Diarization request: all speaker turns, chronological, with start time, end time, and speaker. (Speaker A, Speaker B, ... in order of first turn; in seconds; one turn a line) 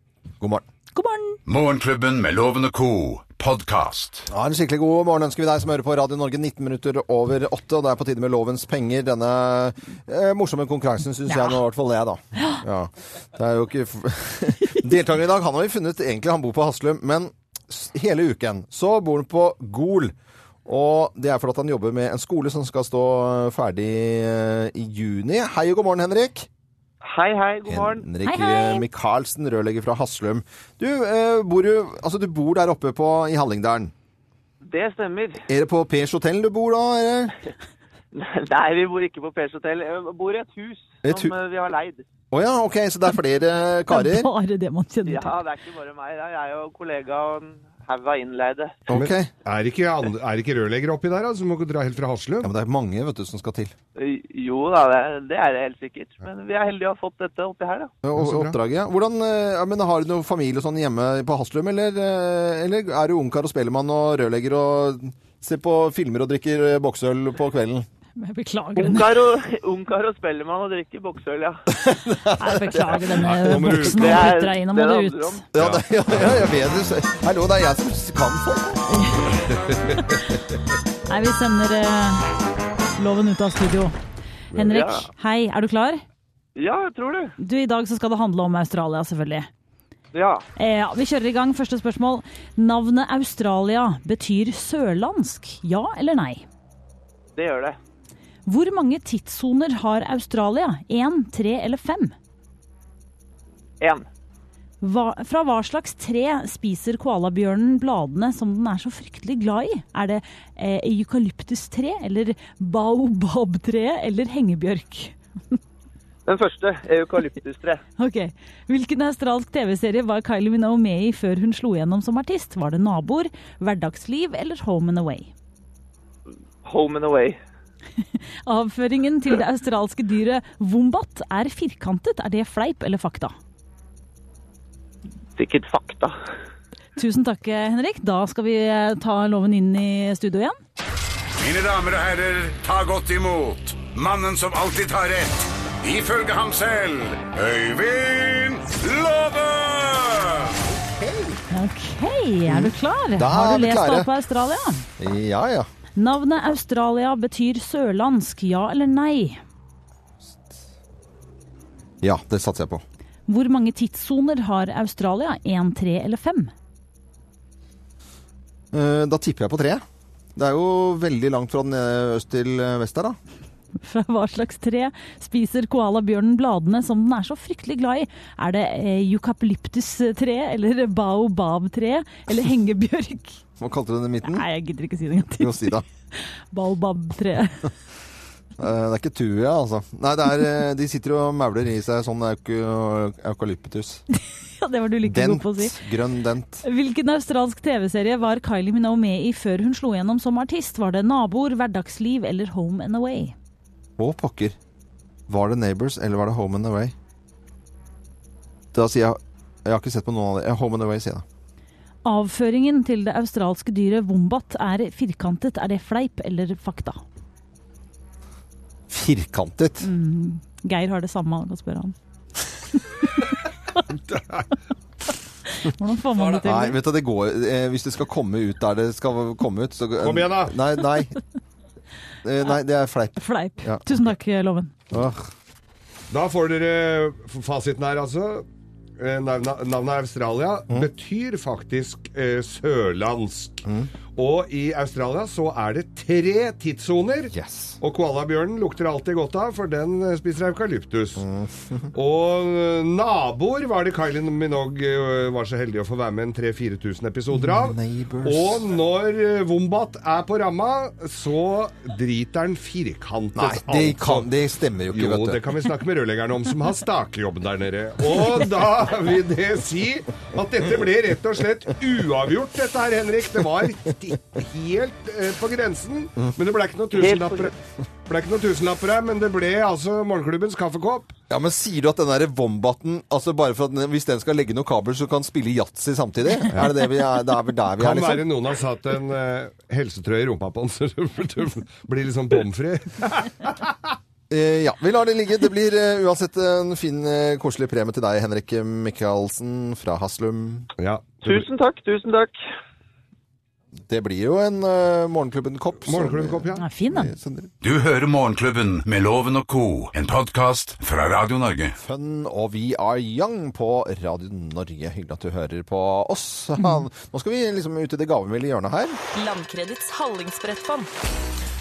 Speaker A: 0.4-0.6
Speaker B: 0.9-1.4
Speaker C: 1.4-4.3
Speaker A: 4.3-20.1
Speaker B: 11.3-11.6
Speaker B: 12.4-12.6
Speaker A: 20.6-26.5
Speaker D: 27.0-28.1
Speaker A: 27.6-33.9
Speaker B: 28.2-28.8
Speaker D: 34.6-35.4
Speaker A: 35.5-37.4
Speaker D: 38.1-42.0
Speaker A: 41.0-41.3
Speaker A: 42.3-44.3
Speaker B: 43.9-45.4
Speaker D: 45.1-48.8
Speaker A: 48.9-49.3
Speaker E: 48.9-52.5
Speaker A: 52.4-53.7
Speaker D: 54.0-57.9
Speaker A: 58.0-67.9
Speaker E: 58.1-58.5
Speaker B: 68.2-69.2
Speaker D: 68.8-71.6
Speaker A: 71.7-73.2
Speaker B: 72.3-75.4
Speaker E: 73.2-74.3
Speaker D: 74.0-75.4
Speaker A: 75.5-78.9
Speaker E: 75.5-76.4
Speaker B: 78.9-80.2
Speaker E: 79.5-80.2
Speaker B: 81.1-82.3
Speaker B: 83.0-83.9
Speaker B: 84.5-86.0
Speaker D: 84.7-85.1
Speaker D: 86.5-87.3
Speaker B: 87.4-89.5
Speaker D: 90.1-90.4
Speaker B: 90.5-96.4
Speaker D: 97.3-97.8
Speaker B: 98.5-102.1
Speaker D: 103.8-104.0
Speaker B: 104.8-115.6
Speaker D: 116.2-117.8
Speaker B: 118.0-125.3
Speaker D: 126.6-127.4
Speaker B: 128.0-133.3
Speaker D: 135.4-136.1
Speaker B: 137.0-140.6
Speaker C: 141.4-150.6
Speaker A: 150.9-151.4
Speaker B: 151.5-154.8
Speaker A: 152.5-154.1
Speaker A: 155.0-155.7
Speaker B: 155.9-159.4
Speaker A: 162.0-162.8
Speaker B: 163.3-166.5
Speaker A: 168.7-169.8
Speaker A: 170.3-173.2
Speaker B: 173.8-183.4
Speaker A: 183.6-184.4
Speaker B: 184.2-187.7
Speaker A: 185.4-185.8
Speaker A: 188.6-194.0
Speaker B: 194.2-195.8
Speaker A: 195.0-196.6
Speaker B: 196.6-203.3
Speaker A: 204.0-204.6
Speaker A: 205.3-206.9
Speaker A: 208.7-211.2
Speaker B: 212.0-217.0
Speaker A: 218.9-219.9
Speaker B: 219.8-221.9
Speaker B: 223.0-223.8
Speaker E: 223.9-224.5
Speaker B: 225.5-226.8
Speaker A: 226.2-231.1
Speaker E: 230.0-230.6
Speaker A: 232.2-234.0
Speaker B: 233.2-234.7
Speaker A: 234.9-235.3
Speaker E: 236.1-238.4
Speaker E: 239.0-243.6
Speaker E: 244.2-251.2
Speaker A: 247.3-247.8
Speaker A: 251.2-251.9
Speaker E: 251.9-264.3
Speaker A: 257.3-258.6
Speaker A: 263.4-265.4
Speaker E: 264.9-277.5
Speaker D: 276.9-277.5
Speaker E: 278.1-281.1
Speaker A: 281.3-288.3
Speaker E: 287.8-293.9
Speaker A: 294.3-300.7
Speaker E: 300.8-301.4
Speaker D: 301.2-302.4
Speaker A: 303.9-307.5
Speaker E: 305.9-306.6
Speaker B: 306.6-307.1
Speaker C: 307.6-311.8
Speaker A: 311.8-319.0
Speaker B: 319.2-320.8